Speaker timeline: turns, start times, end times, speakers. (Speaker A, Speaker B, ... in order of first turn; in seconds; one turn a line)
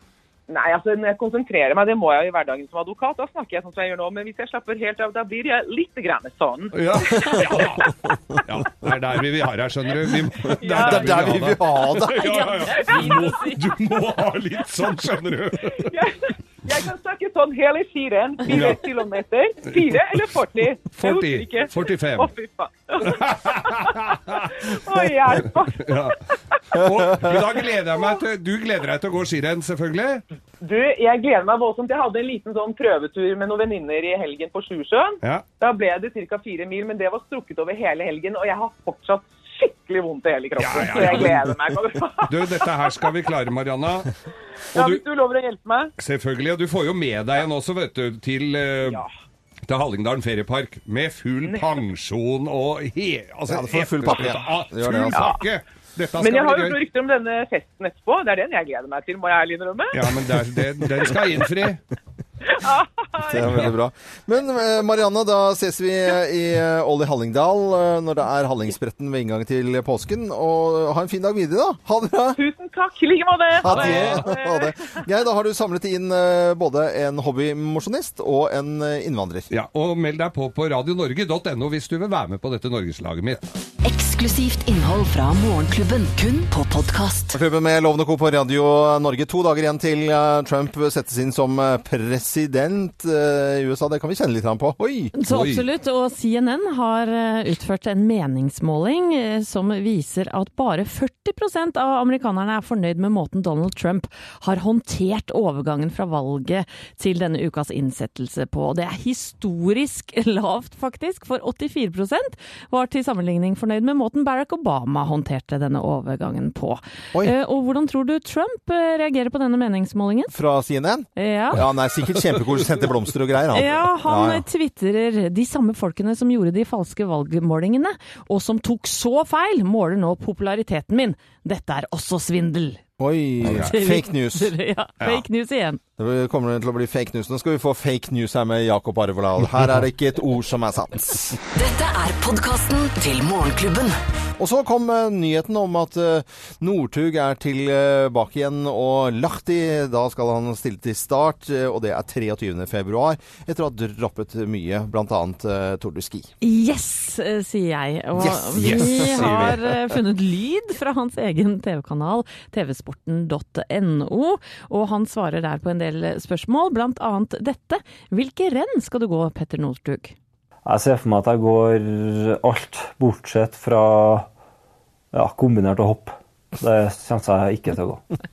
Speaker A: 0.5-7.9
Speaker B: 6.7-7.9
Speaker C: 7.1-7.6
Speaker B: 8.4-15.9
Speaker A: 10.6-11.2
Speaker C: 10.8-12.5
Speaker D: 12.1-13.6
Speaker A: 12.7-13.8
Speaker A: 15.8-26.6
Speaker B: 18.4-18.8
Speaker B: 19.7-20.1
Speaker B: 20.9-22.3
Speaker B: 23.0-24.8
Speaker B: 25.8-30.2
Speaker A: 27.6-28.2
Speaker A: 30.6-43.1
Speaker B: 40.6-41.6
Speaker B: 42.2-44.1
Speaker B: 44.7-45.0
Speaker A: 44.7-45.9
Speaker B: 46.0-49.0
Speaker B: 49.7-56.8
Speaker A: 51.4-51.7
Speaker C: 53.5-55.4
Speaker A: 55.1-55.4
Speaker A: 56.2-60.4
Speaker B: 59.9-61.8
Speaker A: 62.5-63.4
Speaker C: 63.3-72.4
Speaker B: 63.3-63.7
Speaker A: 72.4-74.7
Speaker C: 73.6-79.5
Speaker B: 73.6-74.2
Speaker B: 79.5-83.4
Speaker E: 83.8-87.3
Speaker C: 87.3-95.1
Speaker D: 95.2-120.3
Speaker B: 95.3-95.6
Speaker C: 120.3-124.4
Speaker D: 121.2-121.6
Speaker D: 123.5-132.8
Speaker C: 133.0-134.5
Speaker B: 133.4-133.7
Speaker D: 133.5-135.8
Speaker C: 136.0-141.4
Speaker E: 141.5-143.9
Speaker C: 144.4-156.3
Speaker D: 156.4-170.1
Speaker C: 158.2-159.6
Speaker B: 158.6-159.6
Speaker F: 170.7-174.3
Speaker F: 175.1-178.0